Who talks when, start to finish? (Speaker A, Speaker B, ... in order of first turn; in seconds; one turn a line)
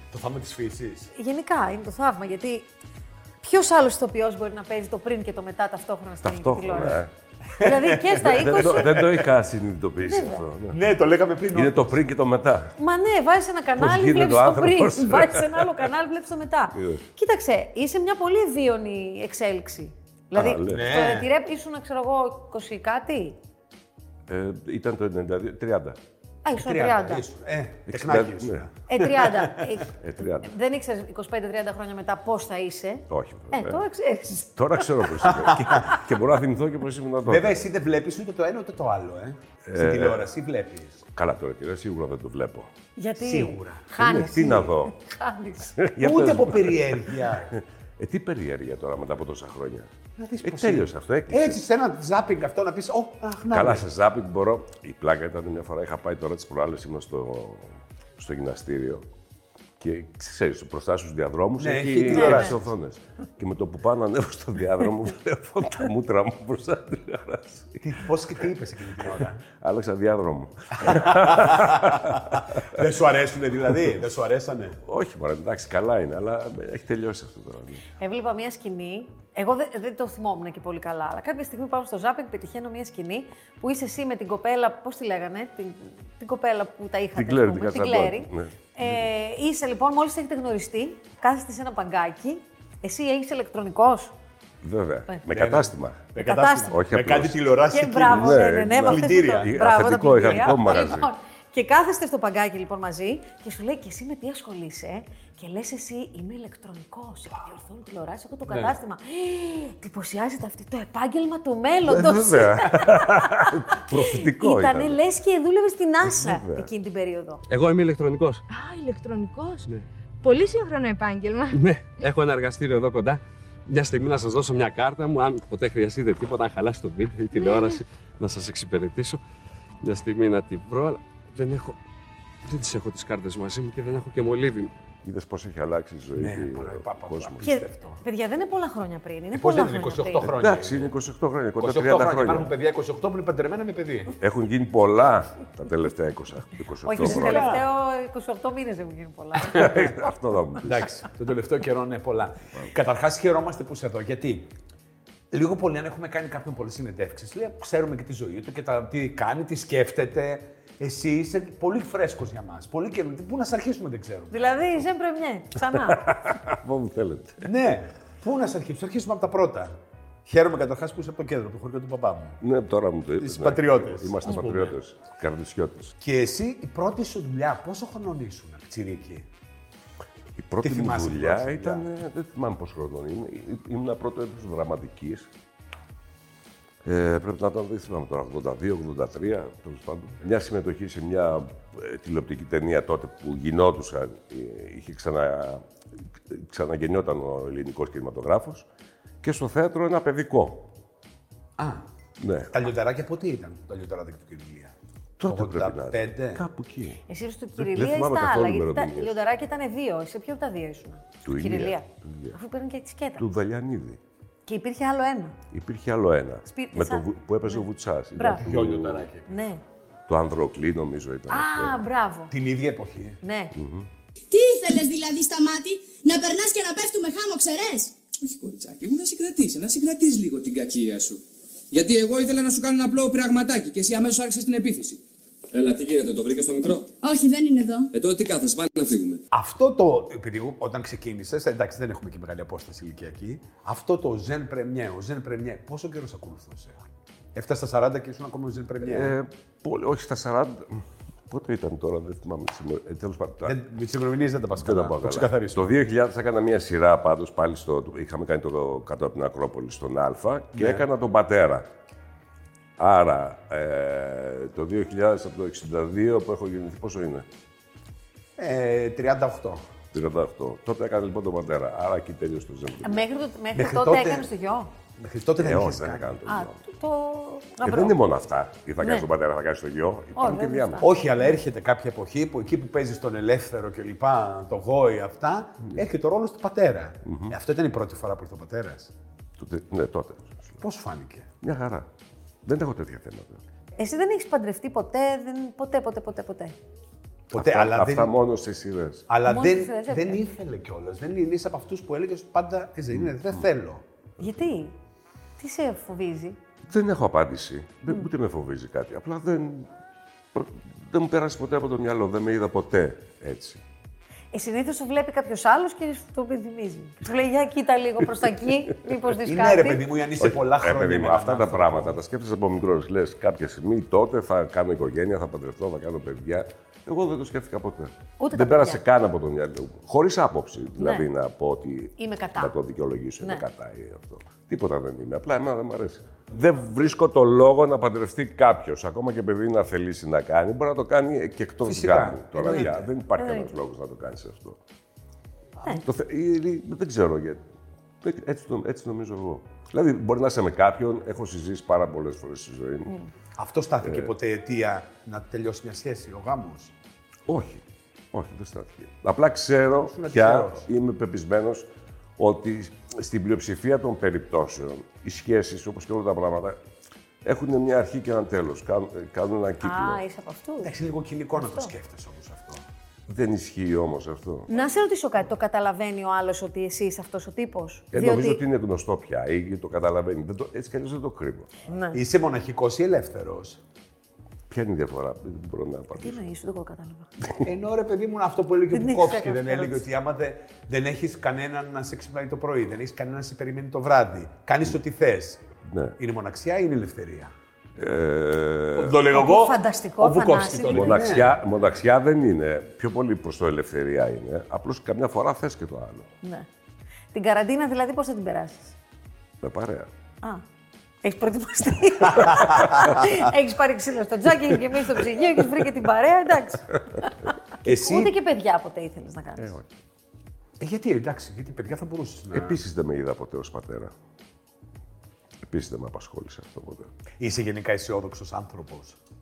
Speaker A: 0.1-1.1
Speaker B: 1.1-2.7
Speaker B: 3.4-7.0
Speaker C: 6.2-7.1
Speaker B: 7.6-9.1
Speaker A: 7.6-9.2
Speaker C: 8.2-10.8
Speaker B: 10.0-10.4
Speaker A: 10.7-12.0
Speaker C: 11.5-12.8
Speaker B: 12.8-23.4
Speaker C: 13.8-15.9
Speaker C: 16.7-17.1
Speaker C: 20.3-21.0
Speaker A: 20.7-21.3
Speaker C: 24.3-26.0
Speaker B: 26.4-27.3
Speaker A: 26.6-29.6
Speaker C: 27.9-28.7
Speaker B: 28.9-34.6
Speaker C: 29.9-30.5
Speaker C: 33.1-33.9
Speaker C: 34.6-37.6
Speaker A: 35.2-35.9
Speaker A: 37.3-41.0
Speaker C: 39.7-40.3
Speaker C: 41.1-42.7
Speaker B: 43.0-45.8
Speaker A: 43.2-43.9
Speaker C: 44.0-44.9
Speaker C: 45.8-49.9
Speaker A: 46.0-47.5
Speaker A: 50.2-53.9
Speaker C: 50.4-51.6
Speaker C: 53.5-59.1
Speaker C: 59.8-67.9
Speaker A: 61.6-62.6
Speaker B: 62.1-62.5
Speaker A: 67.8-69.4
Speaker C: 69.5-72.8
Speaker A: 70.8-74.8
Speaker C: 74.8-77.8
Speaker B: 78.0-94.1
Speaker C: 87.2-89.0
Speaker C: 94.6-96.1
Speaker A: 95.3-99.5
Speaker B: 96.2-96.8
Speaker C: 96.7-97.4
Speaker B: 97.7-117.4
Speaker C: 98.0-101.1
Speaker A: 108.5-108.8
Speaker C: 111.8-115.0
Speaker C: 116.0-116.7
Speaker D: 117.5-118.4
Speaker E: 118.5-119.7
Speaker E: 120.2-121.6
Speaker D: 121.5-129.2
Speaker E: 127.4-127.8
Speaker D: 129.8-131.8
Speaker D: 132.5-134.7
Speaker C: 135.0-137.5
Speaker A: 136.2-138.0
Speaker B: 137.4-140.3
Speaker A: 139.3-140.9
Speaker C: 140.2-142.5
Speaker A: 141.6-144.2
Speaker C: 144.2-147.6
Speaker B: 146.9-149.9
Speaker A: 146.9-147.7
Speaker C: 149.5-150.9
Speaker A: 150.6-154.5
Speaker A: 155.3-164.6
Speaker B: 164.3-166.1
Speaker C: 166.0-167.5
Speaker A: 167.4-172.4
Speaker C: 172.4-175.9
Speaker A: 173.2-174.8
Speaker A: 176.0-179.3
Speaker C: 180.4-185.3
Speaker A: 180.6-181.8
Speaker C: 186.8-195.6
Speaker C: 196.3-198.7
Speaker C: 199.2-200.7
Speaker A: 201.6-201.8
Speaker C: 202.2-202.5
Speaker A: 202.5-204.7
Speaker C: 205.2-207.0
Speaker A: 205.3-206.4
Speaker B: 207.1-213.2
Speaker C: 207.6-209.2
Speaker C: 211.2-212.4
Speaker C: 213.2-214.0
Speaker B: 214.5-215.4
Speaker C: 215.5-219.1
Speaker B: 216.5-218.4
Speaker A: 218.4-219.3
Speaker B: 219.3-219.6
Speaker C: 220.1-221.8
Speaker B: 221.3-222.3
Speaker A: 222.3-223.2
Speaker B: 223.2-223.6
Speaker C: 223.6-223.9
Speaker F: 224.3-227.9
Speaker G: 228.6-230.0
Speaker G: 231.8-235.0
Speaker G: 235.9-236.5
Speaker F: 236.9-237.9
Speaker G: 238.1-238.8
Speaker A: 239.3-249.2
Speaker C: 248.8-253.6
Speaker A: 253.5-255.7
Speaker C: 254.5-261.7
Speaker A: 260.6-260.9
Speaker C: 262.8-267.3
Speaker A: 268.4-269.6
Speaker C: 269.9-273.1
Speaker B: 272.8-274.7
Speaker A: 273.5-274.3
Speaker A: 275.0-276.1
Speaker C: 275.4-276.6
Speaker B: 276.3-278.0
Speaker C: 277.6-280.9
Speaker B: 278.8-279.1
Speaker B: 280.2-281.0
Speaker A: 280.8-288.9
Speaker C: 287.1-287.4
Speaker C: 289.4-290.6
Speaker A: 290.6-291.3
Speaker C: 291.4-291.9
Speaker C: 292.5-293.4
Speaker B: 293.8-296.6
Speaker C: 297.3-299.1
Speaker A: 297.4-298.1
Speaker A: 299.1-303.8
Speaker B: 299.2-300.2
Speaker B: 304.2-304.8
Speaker B: 305.4-306.4
Speaker C: 306.7-309.7
Speaker C: 310.3-313.6
Speaker B: 314.3-319.9
Speaker A: 319.2-322.0
Speaker C: 320.2-344.6
Speaker B: 328.2-328.8
Speaker B: 330.8-331.1
Speaker B: 332.0-332.6
Speaker A: 341.6-342.9
Speaker B: 342.4-343.6
Speaker C: 345.7-347.4
Speaker C: 348.0-353.0
Speaker A: 353.4-356.7
Speaker C: 353.8-354.1
Speaker C: 357.3-366.6
Speaker A: 359.8-360.7
Speaker C: 367.2-370.0
Speaker B: 369.6-370.7
Speaker A: 370.6-372.6
Speaker B: 371.4-371.7
Speaker C: 373.1-374.5
Speaker B: 374.5-378.4
Speaker C: 377.9-381.5
Speaker B: 381.7-382.0
Speaker A: 381.9-383.6
Speaker C: 384.5-386.2
Speaker B: 385.9-387.1
Speaker A: 387.4-395.4
Speaker B: 388.7-389.9
Speaker C: 395.7-396.0
Speaker A: 396.0-397.3
Speaker C: 397.8-399.0
Speaker A: 398.8-401.3
Speaker B: 399.1-401.3
Speaker C: 400.7-406.1
Speaker B: 406.2-406.5
Speaker B: 407.1-408.8
Speaker C: 409.4-409.9
Speaker B: 411.0-417.1
Speaker A: 417.6-418.1
Speaker B: 417.7-419.6
Speaker C: 419.4-419.6
Speaker A: 420.6-422.6
Speaker C: 422.3-423.9
Speaker C: 425.4-426.9
Speaker A: 427.2-429.0